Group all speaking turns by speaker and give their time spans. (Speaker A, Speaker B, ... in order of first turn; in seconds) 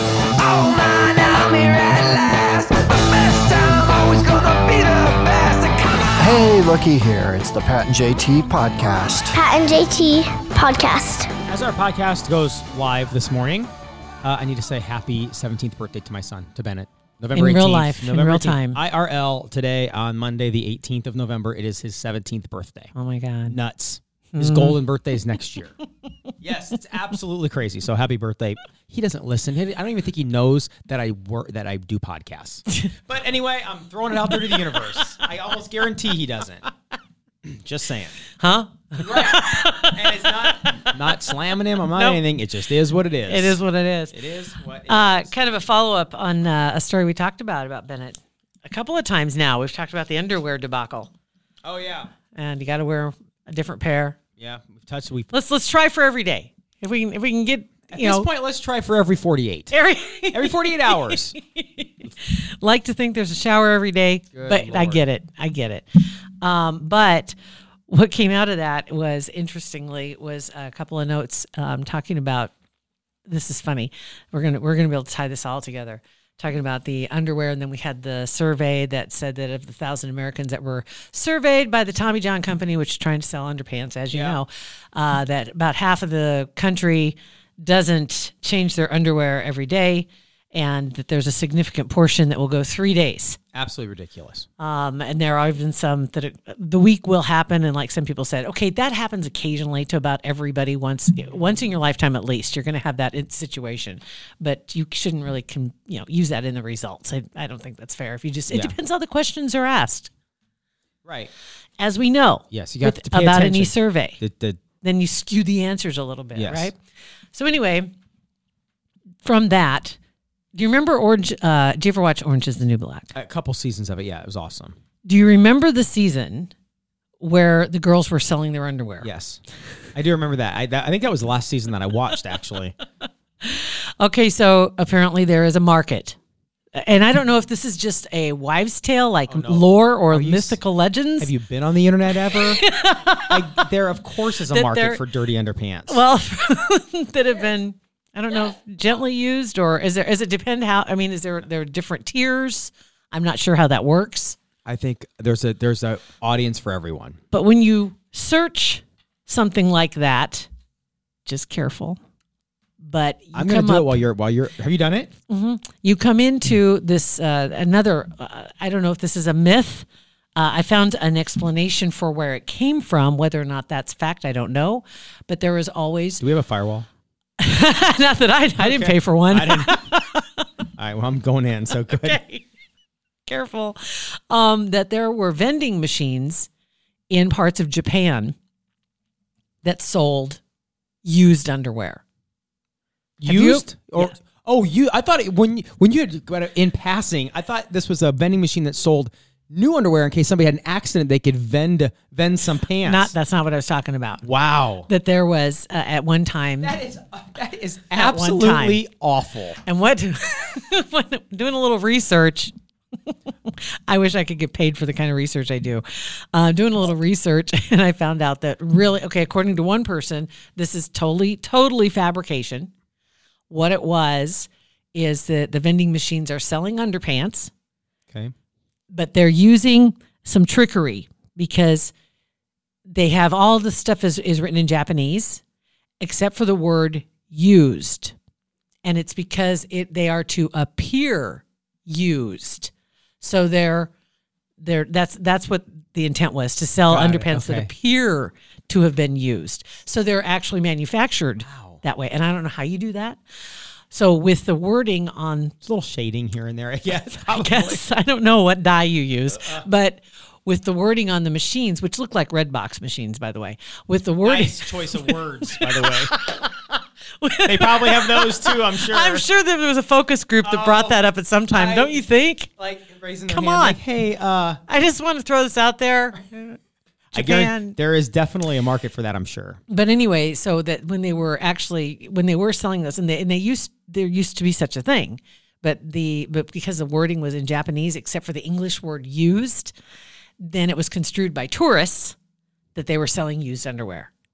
Speaker A: 0.4-6.3
Speaker B: 6.2-9.4
Speaker C: 9.3-11.3
Speaker D: 11.5-13.7, 14.2-22.9, 23.5-25.7, 26.4-36.7, 37.5-38.2, 39.0-43.6, 44.1-45.3, 51.6-52.1, 54.4-55.3, 57.9-59.8, 60.3-61.4, 64.3-65.0, 84.1-84.4, 93.5-94.5, 108.5-108.7, 111.0-111.3, 112.5-114.6, 116.3-116.7, 123.1-124.8, 129.0-129.4, 129.9-132.8, 139.3-140.6, 141.2-142.6, 143.3-146.0, 154.7-157.2, 163.3-165.1, 176.2-176.9, 178.6-179.8, 180.8-182.2, 193.2-203.1, 204.2-204.9, 206.6-209.6, 246.9-247.7, 251.4-251.8, 255.6-257.8, 264.2-266.1, 267.4-269.2, 270.4-271.0, 271.5-272.0, 272.6-274.6, 277.1-279.6
Speaker E: 17.3-18.8, 22.9-23.6, 24.3-24.8, 34.4-35.0, 38.4-41.2, 41.9-42.2, 43.3-44.2, 44.9-51.1, 52.4-54.2, 55.3-58.3, 59.7-65.9, 66.4-67.4, 67.9-72.5, 73.3-93.4, 94.6-110.1, 111.8-114.2, 114.8-116.8, 117.3-117.9, 119.2-120.0, 120.5-123.1, 125.0-126.5, 127.2-129.1, 133.4-136.2, 136.8-141.3, 142.3-143.4, 144.4-145.0, 145.9-154.4, 157.3-160.5, 161.3-162.0, 162.8-164.0, 165.3-176.2, 177.4-180.4, 181.8-182.4, 183.3-186.5, 187.1-188.4, 189.6-190.4, 191.1-192.0, 193.2-194.1, 202.8-204.2, 204.9-206.8, 207.9-208.8, 209.6-212.5, 213.1-222.7, 223.5-227.5, 228.9-231.9, 232.9-235.4, 236.0-238.1, 238.8-243.9, 244.6-253.2, 253.9-255.6, 257.1-272.5, 273.3-273.8, 274.7-276.6, 277.1-277.8, 279.7-289.7, 290.4-292.2, 292.8-294.1